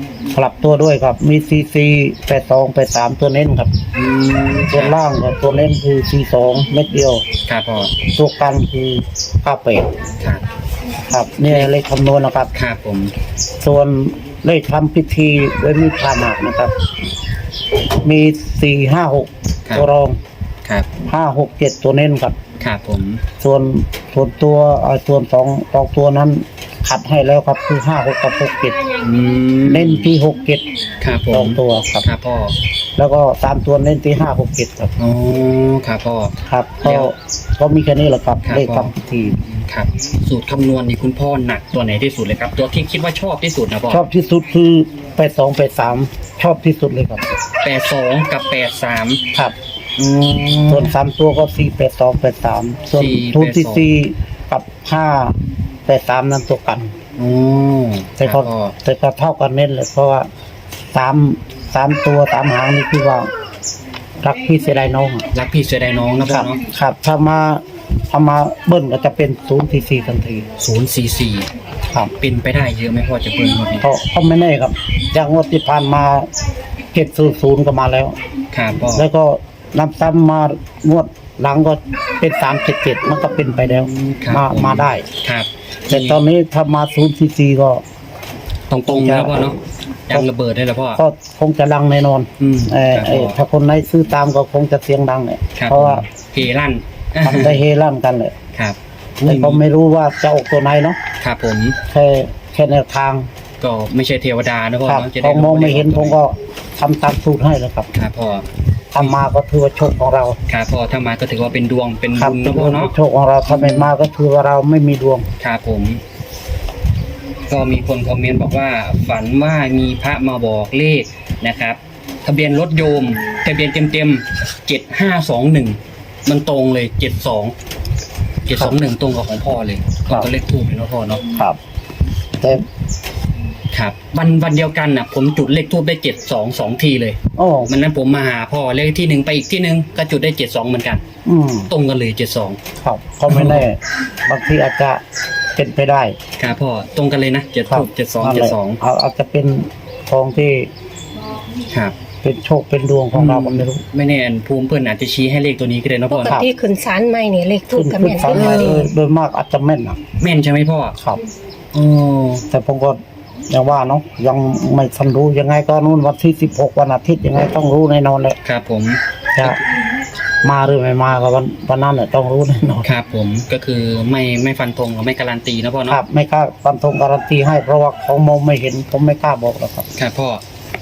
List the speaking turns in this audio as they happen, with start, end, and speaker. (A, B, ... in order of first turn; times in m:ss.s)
0:00.3-0:03.7 A
0:03.9-0:05.0 B
0:04.7-0:07.2 A
0:07.5-0:07.9 B
0:08.1-0:09.9 A
0:11.1-0:12.5 A
0:12.5-0:13.1 B
0:13.6-0:16.7 A
0:18.0-0:20.2 A
0:21.1-0:22.4 A
0:22.6-0:23.2 B
0:23.4-0:28.9 A
0:29.0-0:30.1 B
0:29.7-0:30.7 A
0:31.0-0:32.6 B
0:31.3-0:32.1 A
0:33.0-0:34.9 A
0:35.0-0:37.1 B
0:36.5-0:39.4 A
0:38.4-0:44.1 B
0:43.9-0:47.3 A
0:47.6-0:49.2 B
0:50.0-0:50.9 B
0:50.7-0:57.0 A
0:52.9-0:53.9 B
0:57.2-0:58.7 B
0:58.2-1:00.3 A
1:00.9-1:03.3 A
1:04.2-1:05.3 A
1:05.3-1:06.6 B
1:06.3-1:10.5 A
1:10.6-1:11.5 B
1:12.2-1:13.9 B
1:13.8-1:16.3 A
1:16.9-1:18.2 A
1:18.5-1:19.1 B
1:18.9-1:25.1 A
1:23.6-1:26.2 B
1:25.9-1:27.8 A
1:28.7-1:29.6 B
1:28.9-1:29.4 A
1:30.1-1:31.0 B
1:31.0-1:36.0 A
1:32.4-1:33.4 B
1:35.6-1:37.6 B
1:37.2-1:38.3 A
1:38.5-1:39.6 B
1:39.3-1:41.0 A
1:41.2-1:41.8 B
1:41.9-1:43.3 A
1:43.6-1:46.2 B
1:44.9-1:47.9 A
1:47.9-1:49.2 B
1:48.9-1:50.4 A
1:50.5-1:52.9 B
1:52.2-1:55.3 A
1:53.5-1:53.9 B
1:55.4-1:56.0 B
1:57.5-2:07.6 B
2:08.5-2:11.2 B
2:11.3-2:11.6 A
2:13.7-2:21.0 B
2:17.4-2:17.7 A
2:21.2-2:21.7 A
2:21.7-2:22.6 B
2:22.8-2:25.0 A
2:23.3-2:23.6 B
2:25.6-2:26.2 A
2:26.4-2:28.8 B
2:27.7-2:30.7 A
2:31.7-2:32.0 B
2:32.2-2:33.8 A
2:33.1-2:36.4 B
2:36.1-2:38.9 C
2:37.7-2:40.0 A
2:38.3-2:38.9 B
2:40.2-2:41.0 B
2:41.7-2:42.4 B
2:42.5-2:48.4 A
2:48.4-2:49.6 B
2:50.4-2:52.8 A
2:52.8-2:56.0 B
2:55.9-2:59.9 A
3:00.0-3:00.4 B